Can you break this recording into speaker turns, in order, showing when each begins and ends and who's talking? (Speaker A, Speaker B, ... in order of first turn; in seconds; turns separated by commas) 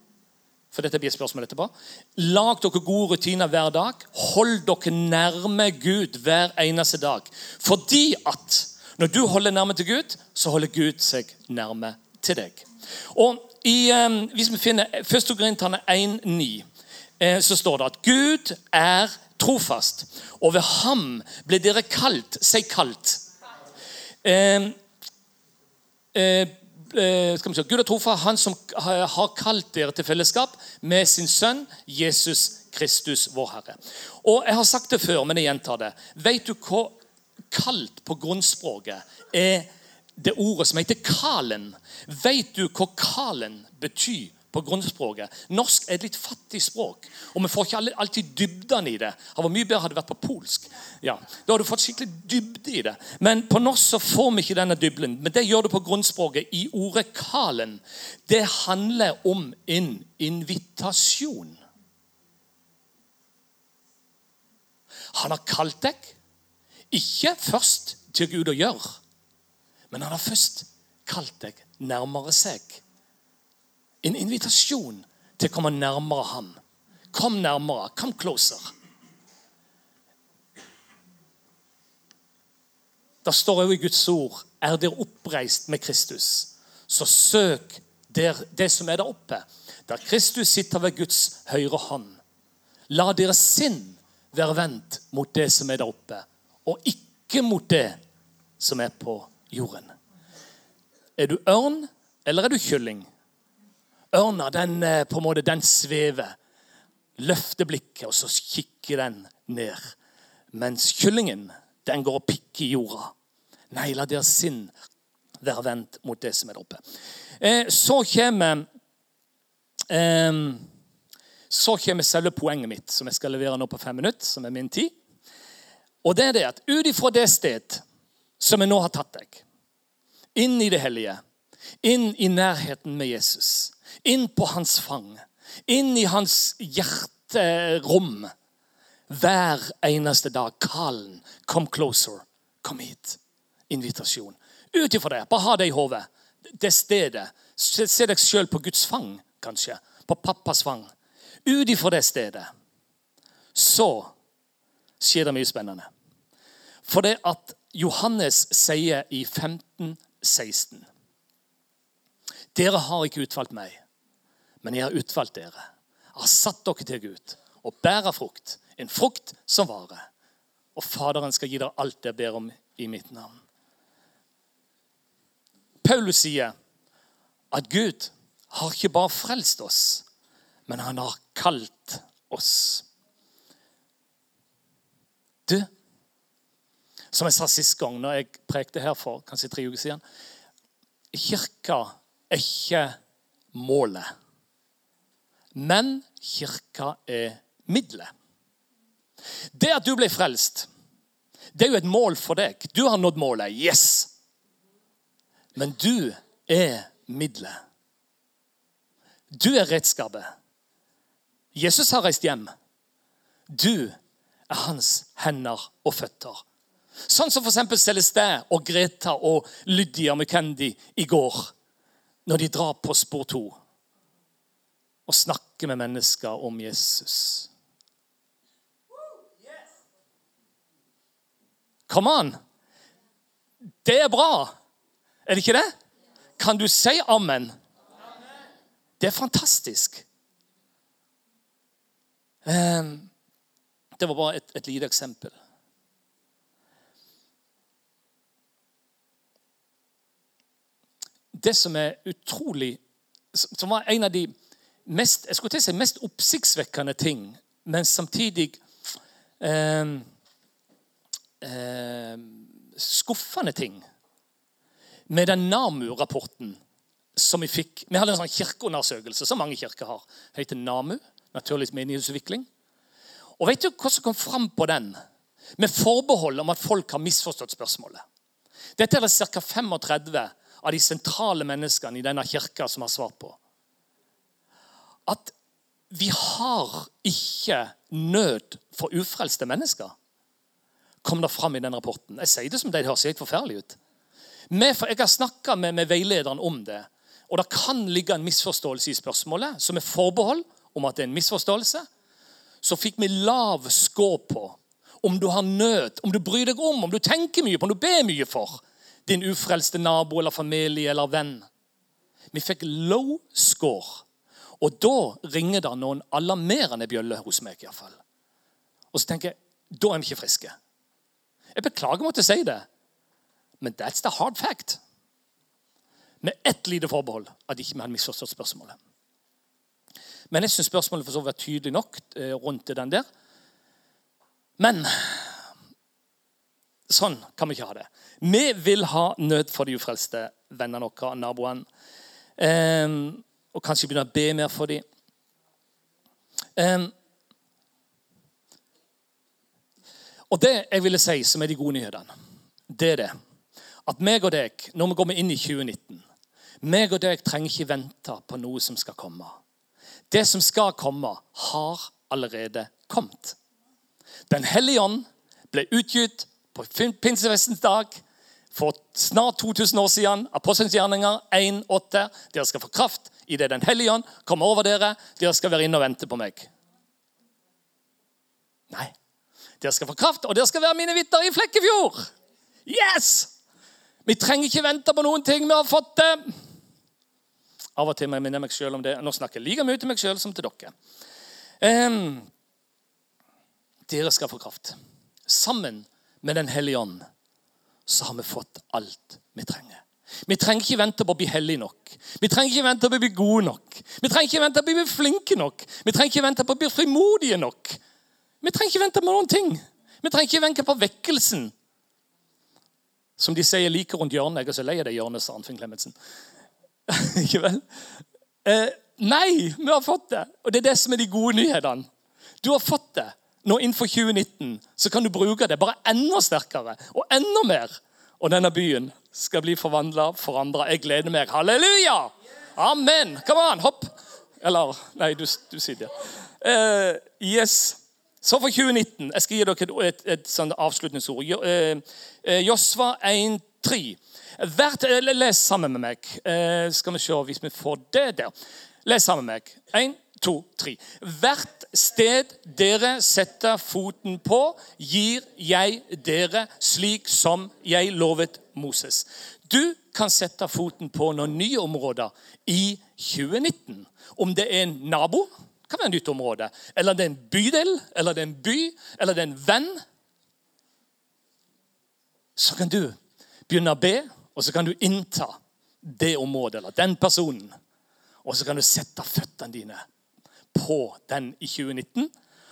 Speaker A: 0.7-16.6, Speaker A: 17.2-23.2, Speaker A: 24.2-24.8, Speaker A: 26.1-37.0, Speaker A: 37.5-61.6, Speaker A: 65.1-66.2, Speaker A: 66.9-69.0, Speaker A: 69.9-72.8, Speaker A: 74.0-76.6, Speaker A: 77.1-78.7, Speaker A: 83.2-92.2, Speaker A: 92.9-98.0, Speaker A: 98.6-99.9, Speaker A: 101.2-103.1, Speaker A: 104.1-106.3, Speaker A: 107.2-109.9, Speaker A: 110.5-113.1, Speaker A: 113.7-114.7, Speaker A: 115.4-116.8, Speaker A: 117.4-118.7, Speaker A: 119.9-120.7, Speaker A: 121.5-124.9, Speaker A: 126.0-127.8, Speaker A: 128.4-129.4, Speaker A: 130.3-131.2, Speaker A: 131.8-138.3, Speaker A: 139.1-143.2, Speaker A: 143.7-146.1, Speaker A: 146.6-150.9, Speaker A: 151.4-152.5, Speaker A: 153.6-154.1, Speaker A: 155.0-155.9, Speaker A: 156.8-160.9, Speaker A: 162.5-163.8, Speaker A: 164.6-165.6, Speaker A: 166.2-170.1, Speaker A: 170.8-173.4, Speaker A: 175.8-176.5, Speaker A: 177.5-180.0, Speaker A: 180.7-182.8, Speaker A: 187.1-190.0, Speaker A: 191.1-193.0, Speaker A: 193.5-194.1, Speaker A: 195.5-198.1, Speaker A: 199.5-200.7, Speaker A: 201.6-204.1, Speaker A: 205.6-207.6, Speaker A: 209.3-210.3, Speaker A: 211.5-212.5, Speaker A: 213.5-214.0, Speaker A: 214.5-216.4, Speaker A: 217.1-221.5, Speaker A: 222.3-223.6, Speaker A: 225.1-227.5, Speaker A: 231.9-232.4, Speaker A: 233.8-234.5, Speaker A: 235.3-235.7, Speaker A: 236.4-237.6, Speaker A: 239.0-240.0, Speaker A: 242.5-243.1, Speaker A: 244.0-245.3, Speaker A: 251.3-252.8, Speaker A: 253.3-254.3, Speaker A: 254.9-258.6, Speaker A: 259.4-260.1, Speaker A: 261.4-263.8, Speaker A: 265.1-266.6, Speaker A: 267.2-272.5, Speaker A: 273.4-275.0, Speaker A: 275.6-278.0, Speaker A: 278.8-283.4, Speaker A: 285.1-285.3, Speaker A: 285.9-289.9, Speaker A: 291.0-293.8, Speaker A: 294.5-301.9, Speaker A: 302.6-311.5, Speaker A: 312.3-314.1, Speaker A: 314.6-318.0, Speaker A: 318.9-320.5, Speaker A: 321.6-322.6, Speaker A: 323.6-324.8, Speaker A: 326.2-328.8, Speaker A: 330.3-333.1, Speaker A: 334.6-335.4, Speaker A: 336.9-341.7, Speaker A: 342.4-344.8, Speaker A: 346.6-346.9, Speaker A: 350.3-352.1, Speaker A: 352.7-353.1, Speaker A: 353.9-356.0, Speaker A: 356.6-359.4, Speaker A: 360.1-363.4, Speaker A: 364.3-376.5, Speaker A: 379.6-382.1, Speaker A: 382.7-383.3, Speaker A: 384.1-386.3, Speaker A: 387.8-390.7, Speaker A: 391.6-392.3, Speaker A: 393.9-394.8, Speaker A: 395.3-397.1, Speaker A: 397.9-407.8, Speaker A: 408.4-411.5, Speaker A: 413.2-415.9, Speaker A: 416.9-417.6, Speaker A: 418.4-421.9, Speaker A: 422.4-448.3, Speaker A: 448.9-469.8, Speaker A: 472.4-473.0, Speaker A: 473.5-477.6, Speaker A: 478.2-479.8, Speaker A: 480.5-482.1